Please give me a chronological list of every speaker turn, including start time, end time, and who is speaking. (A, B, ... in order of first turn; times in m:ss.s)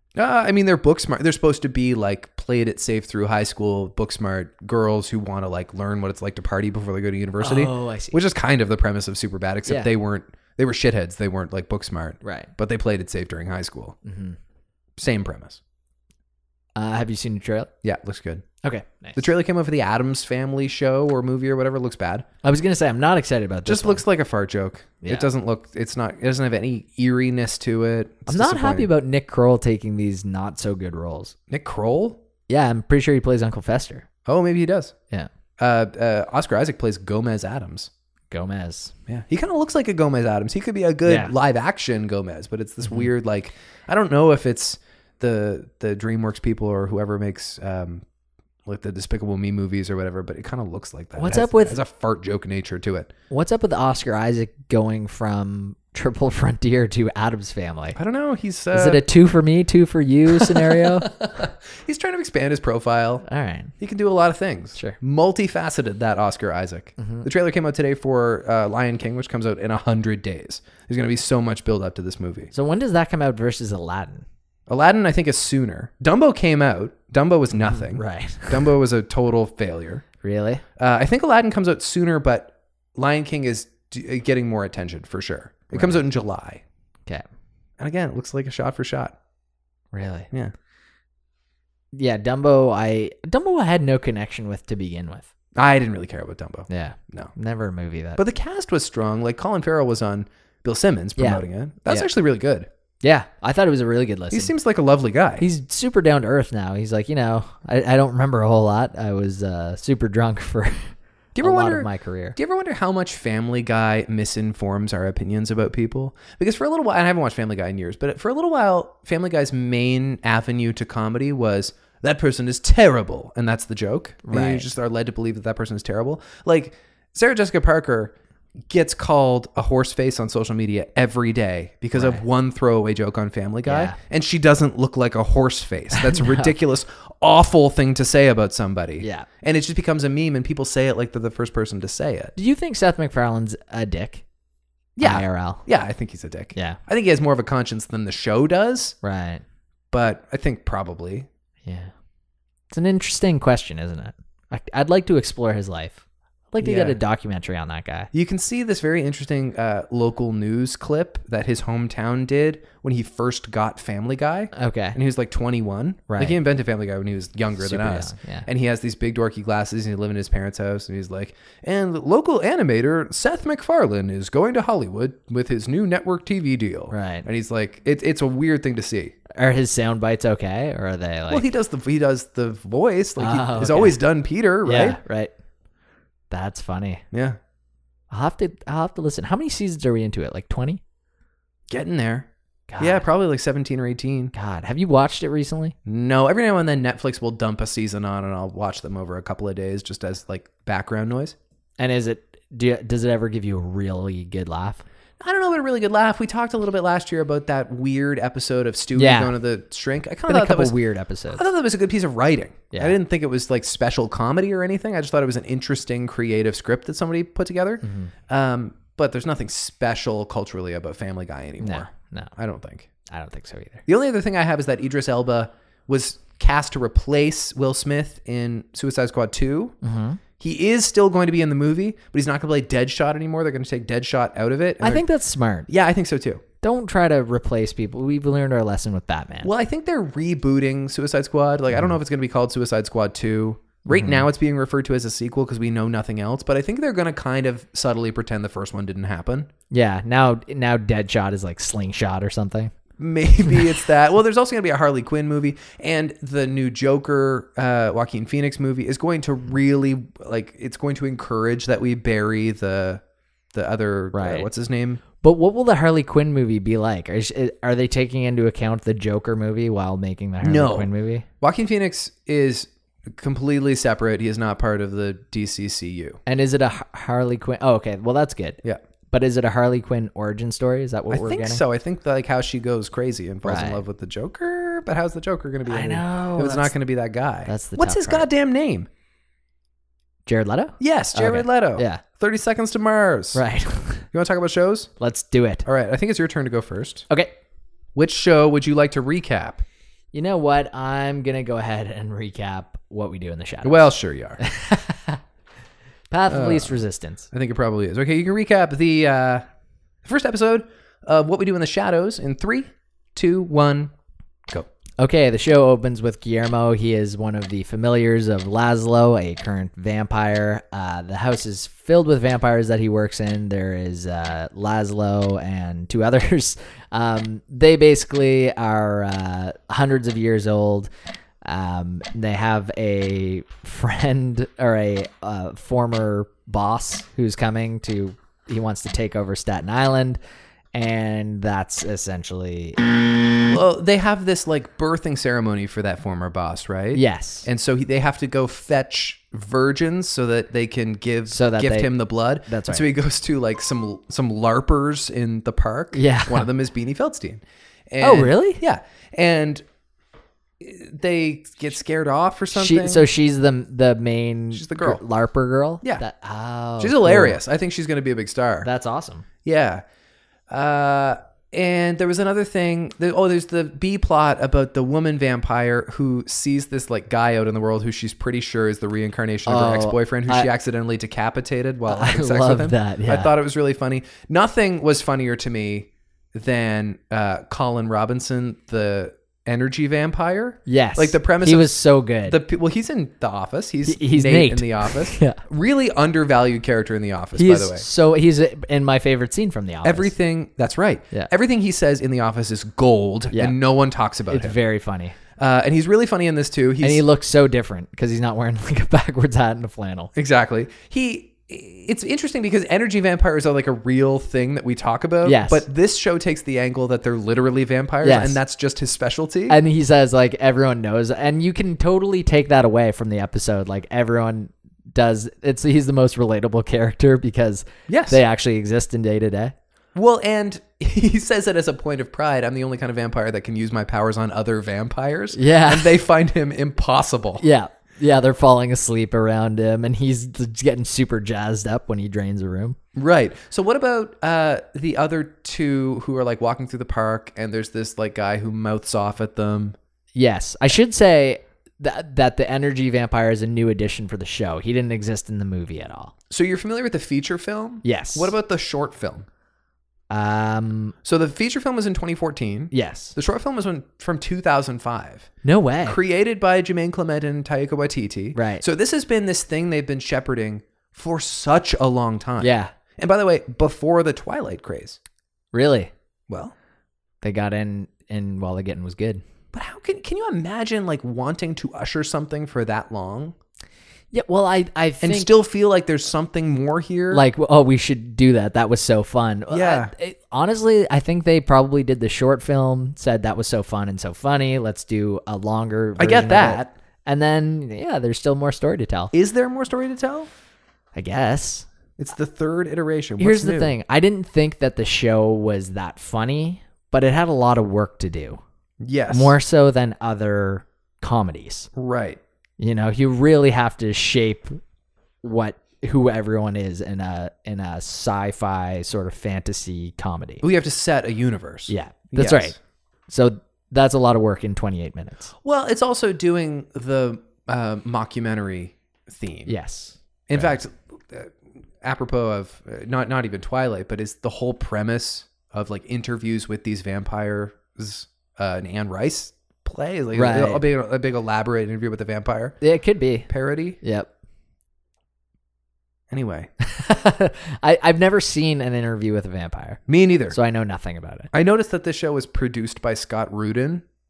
0:00.2-0:14.0 A
0:07.4-0:08.2 B
0:12.2-0:12.5 B
0:14.0-0:14.4 B
0:15.0-0:15.6 A
0:16.8-0:17.7 B
0:17.8-0:18.5 A
0:18.6-0:19.3 B
0:19.2-0:22.3 A
0:22.4-0:24.0 B
0:23.7-0:28.9 A
0:28.3-0:31.4 B
0:31.5-0:32.2 A
0:32.5-0:34.1 B
0:34.2-0:35.0 A
0:35.6-0:37.9 A
0:38.3-0:38.9 B
0:39.1-0:48.0 A
0:41.0-0:41.3 B
0:42.8-0:43.1 B
0:48.7-0:53.1 A
0:51.2-0:51.8 B
0:53.3-0:58.0 B
0:58.0-0:59.0 A
0:58.7-1:01.1 B
1:00.3-1:03.2 A
1:03.2-1:03.7 B
1:03.8-1:12.5 A
1:07.0-1:07.3 B
1:12.5-1:14.2 B
1:14.7-1:20.0 A
1:17.6-1:18.7 B
1:20.2-1:20.6 B
1:20.8-1:26.6 A
1:25.7-1:26.0 B
1:27.8-1:29.2 A
1:29.9-1:30.3 B
1:31.9-1:35.3 B
1:35.6-1:37.3 A
1:36.7-1:38.2 B
1:38.2-1:42.7 A
1:41.2-1:42.1 B
1:43.0-1:44.5 B
1:44.3-1:45.5 A
1:45.4-1:52.4 B
1:51.4-2:08.1 A
2:04.2-2:04.7 B
2:08.7-2:22.3 A
2:12.0-2:12.2 B
2:13.7-2:14.0 B
2:15.9-2:16.5 B
2:19.0-2:19.3 B
2:22.4-2:24.2 B
2:25.0-2:29.0 A
2:25.0-2:25.6 B
2:29.0-2:29.4 B
2:29.9-2:31.3 A
2:31.6-2:31.9 B
2:32.7-2:38.1 B
2:36.6-2:37.0 A
2:38.1-2:59.2 A
2:44.5-2:45.0 B
2:46.1-2:46.4 B
2:47.6-2:48.5 B
2:56.9-2:57.3 B
2:59.4-3:01.5 B
3:01.3-3:05.0 A
3:03.2-3:04.0 B
3:04.6-3:05.3 B
3:06.3-3:07.0 B
3:07.1-3:07.4 A
3:08.1-3:10.8 B
3:11.7-3:12.3 A
3:12.7-3:13.0 B
3:12.8-3:14.3 A
3:14.3-3:15.8 B
3:15.9-3:21.4 A
3:21.8-3:24.8 B
3:25.2-3:30.8 A
3:29.0-3:29.3 B
3:30.3-3:31.4 B
3:31.3-3:42.9 A
3:37.8-3:38.1 B
3:41.6-3:42.3 B
3:43.1-3:43.8 B
3:43.9-3:49.8 A
3:49.8-3:50.2 B
3:50.4-3:55.1 A
3:54.8-3:55.7 B
3:55.7-3:56.4 A
3:56.6-3:59.5 B
3:59.4-4:09.5 A
4:03.9-4:04.3 B
4:09.7-4:12.7 B
4:13.0-4:23.0 A
4:23.5-4:25.0 A
4:24.1-4:24.5 B
4:25.2-4:31.3 B
4:30.4-4:36.2 A
4:36.3-4:41.6 B
4:41.1-4:48.9 A
4:43.4-4:43.8 B
4:45.7-4:46.7 B
4:47.5-4:48.3 B
4:50.3-4:52.0 B
4:50.8-4:53.4 A
4:53.3-4:54.1 B
4:54.1-4:54.9 A
4:55.0-4:55.7 B
4:55.7-4:57.1 A
4:58.0-4:59.6 A
5:00.1-5:05.2 B
5:03.6-5:04.4 A
5:06.1-5:07.3 B
5:06.3-5:06.8 A
5:07.3-5:09.4 A
5:10.0-5:13.9 A
5:15.0-5:30.9 B
5:31.4-5:40.2 B
5:40.7-5:42.8 B
5:43.5-5:59.6 A
5:46.9-5:47.5 B
5:51.3-5:51.9 B
5:52.5-5:52.8 B
5:55.9-5:56.5 B
5:58.0-5:58.6 B
6:00.6-6:03.1 A
6:02.5-6:07.4 B
6:04.5-6:05.0 A
6:06.8-6:08.7 A
6:08.6-6:09.3 B
6:09.4-6:09.8 A
6:10.5-6:31.7 A
6:19.5-6:20.5 B
6:21.9-6:23.3 B
6:30.7-6:32.4 B
6:32.2-6:37.8 A
6:33.9-6:35.4 B
6:37.4-6:40.1 B
6:39.8-6:44.6 A
6:43.3-6:43.6 B
6:44.3-6:45.2 B
6:45.4-6:47.0 A
6:46.8-6:50.1 B
6:50.2-6:59.6 A
6:55.2-6:55.7 B
6:58.0-6:58.4 B
6:59.5-7:09.6 B
7:07.9-7:08.2 A
7:10.0-7:17.4 A
7:15.3-7:16.0 B
7:17.4-7:22.8 B
7:23.0-7:29.8 A
7:30.2-7:36.1 B
7:36.3-7:39.3 A
7:37.8-7:38.3 B
7:40.1-7:40.9 B
7:41.0-7:45.3 A
7:42.7-7:43.2 B
7:45.4-7:46.0 B
7:45.8-7:55.0 A
7:48.4-7:48.6 B
7:52.4-7:52.7 B
7:55.5-7:55.9 B
7:56.3-7:56.6 A
7:57.2-7:59.2 B
7:59.5-8:03.4 A
8:04.1-8:05.3 B
8:05.0-8:07.2 A
8:07.1-8:19.1 B
8:09.5-8:09.9 A
8:16.0-8:16.7 A
8:19.1-8:20.3 A
8:21.0-8:21.7 B
8:22.0-8:23.7 A
8:23.2-8:28.4 B
8:28.8-8:29.4 A
8:29.1-8:31.7 B
8:31.8-8:32.2 A
8:32.6-8:34.6 B
8:35.2-8:40.4 B
8:40.4-8:42.6 A
8:41.7-8:42.6 B
8:43.1-8:45.3 B
8:45.4-8:49.6 A
8:49.5-8:50.5 B
8:50.3-9:02.6 A
9:00.1-9:00.6 B
9:02.6-9:03.3 B
9:03.3-9:03.8 A
9:03.8-9:04.1 B
9:06.1-9:06.5 A
9:06.6-9:11.3 B
9:09.9-9:10.4 A
9:11.3-9:13.8 A